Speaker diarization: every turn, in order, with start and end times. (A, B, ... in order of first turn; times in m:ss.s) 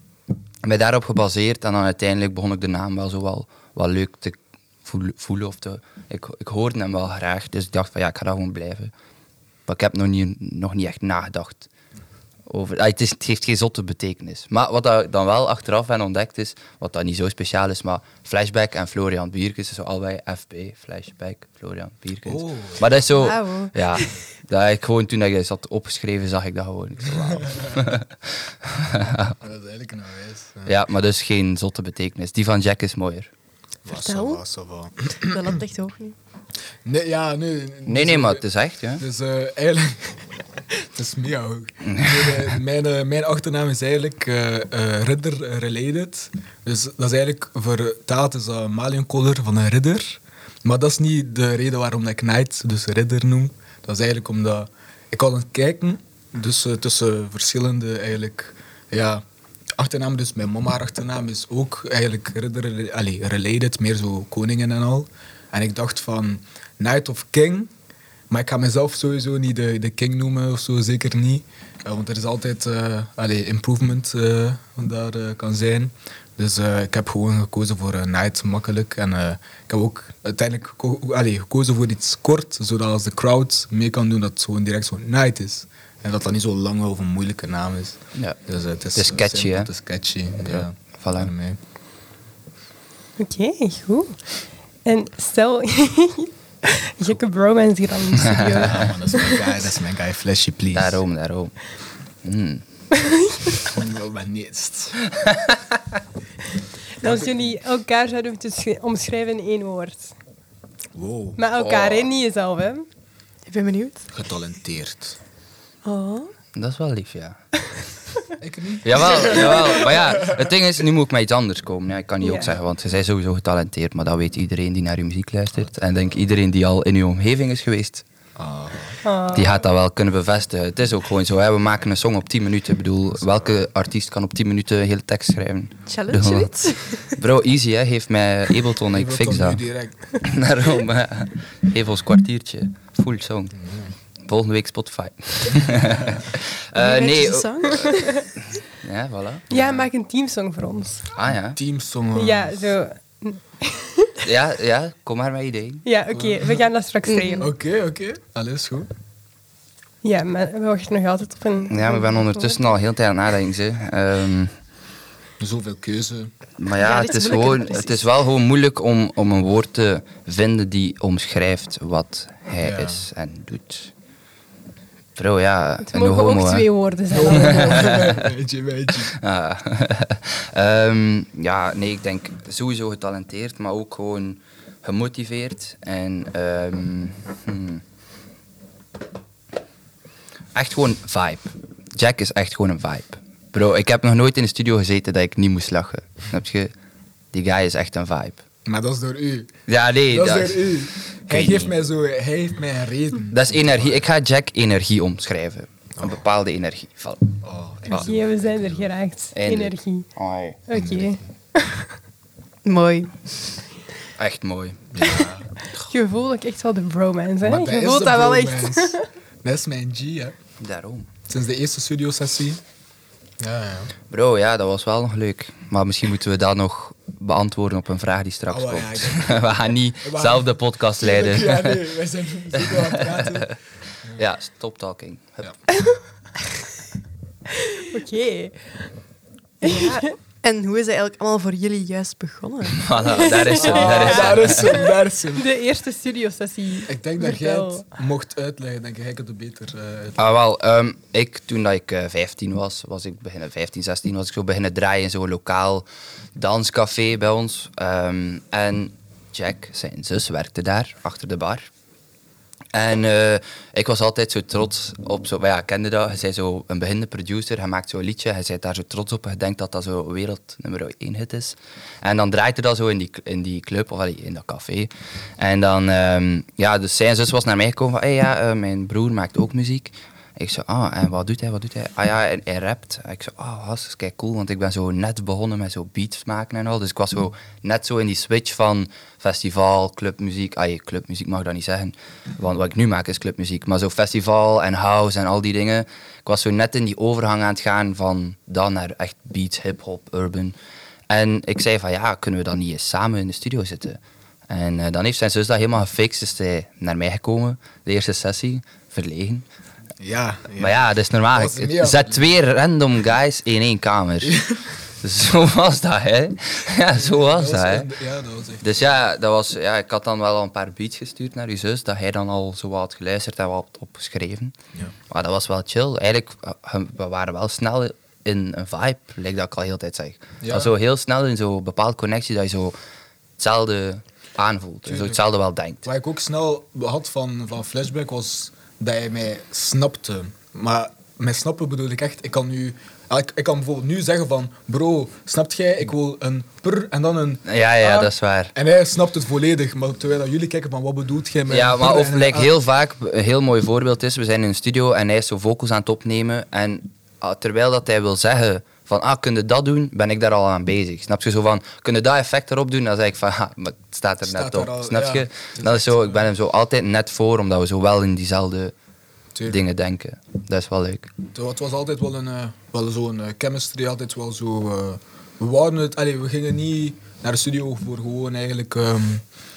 0:00.6-0:08.9 A
0:09.7-0:11.7 A
0:12.5-0:29.4 A
0:22.3-0:23.0 B
0:23.1-0:24.1 C
0:29.4-0:30.7 B
0:30.6-0:33.3 A
0:33.8-0:35.6 B
0:33.9-0:34.4 C
0:35.2-0:36.2 C
0:36.8-0:38.4 B
0:37.9-0:39.0 A
0:39.0-0:59.2 B
0:41.8-0:42.5 A
0:59.8-1:07.7 B
1:08.3-1:31.6 B
1:29.0-1:29.7 A
1:30.4-1:31.3 A
1:33.2-1:34.2 D
1:34.8-1:39.5 D
1:38.2-1:38.9 A
1:38.3-1:41.0 B
1:40.7-1:41.5 A
1:42.2-1:42.6 A
1:43.0-1:43.6 D
1:43.6-1:45.0 B
1:45.0-1:45.8 A
1:47.0-1:50.1 D
1:47.0-1:47.5 B
1:51.0-1:51.4 B
1:51.4-1:52.9 D
1:51.6-1:52.1 A
1:53.5-1:54.1 C
1:54.1-1:55.2 B
1:55.8-1:56.3 C
1:56.6-1:57.4 A
1:58.4-2:00.4 B
1:58.8-2:08.0 A
2:02.2-2:02.6 D
2:08.4-2:09.0 B
2:09.0-2:09.6 D
2:09.3-2:16.5 A
2:13.2-2:13.5 B
2:15.9-2:17.2 C
2:17.0-2:19.6 A
2:18.9-2:20.2 B
2:20.2-2:23.6 A
2:23.6-2:23.9 B
2:24.2-2:29.5 A
2:26.8-2:28.3 C
2:29.5-2:31.1 D
2:29.5-2:29.8 B
2:31.1-2:31.6 A
2:31.6-2:32.8 B
2:32.2-2:34.2 D
2:34.2-2:35.8 A
2:35.8-2:37.5 D
2:36.1-2:36.6 B
2:37.0-2:37.5 C
2:37.4-2:38.9 B
2:40.0-2:42.6 D
2:41.7-2:44.5 A
2:45.4-2:46.3 B
2:46.6-2:53.9 A
2:46.8-2:48.1 C
2:52.6-2:53.0 B
2:55.2-2:56.7 A
2:55.9-2:58.0 D
2:57.1-2:59.2 B
2:57.3-2:58.3 A
2:59.1-3:07.8 A
3:10.6-3:16.7 A
3:17.3-3:18.4 A
3:18.6-3:19.5 B
3:19.7-3:21.7 A
3:20.1-3:24.1 B
3:23.3-3:28.1 A
3:27.4-3:28.9 B
3:27.9-3:30.1 D
3:29.3-3:30.6 A
3:30.7-3:31.9 D
3:30.7-3:31.2 B
3:32.6-3:33.3 C
3:34.2-3:34.8 A
3:34.9-3:35.5 B
3:35.0-3:39.1 D
3:37.4-3:40.4 B
3:40.6-3:41.1 A
3:41.3-3:42.6 B
3:43.4-3:43.9 B
3:44.1-3:51.8 A
3:48.5-3:49.4 B
3:50.0-3:53.5 B
3:52.6-3:53.5 A
3:54.1-3:55.5 A
3:57.8-3:58.9 D
3:59.6-4:00.1 D
3:59.6-4:03.6 C
4:02.8-4:04.8 A
4:03.1-4:07.8 D
4:03.6-4:05.5 B
4:06.9-4:10.2 B
4:10.2-4:21.7 A
4:22.7-5:00.6 A
5:01.1-5:09.5 A
5:10.0-5:12.3 B
5:10.6-5:14.4 A
5:14.2-5:14.6 B
5:15.0-5:17.9 A
5:17.0-5:18.9 B
5:18.6-5:24.6 A
5:25.1-5:32.8 A
5:30.4-5:30.7 B
5:33.4-5:35.8 A
5:34.9-5:35.2 B
5:35.8-5:52.5 B
5:47.5-5:48.5 A
5:51.5-6:08.7 A
6:04.2-6:06.3 B
6:09.5-6:11.1 A
6:11.3-6:19.2 B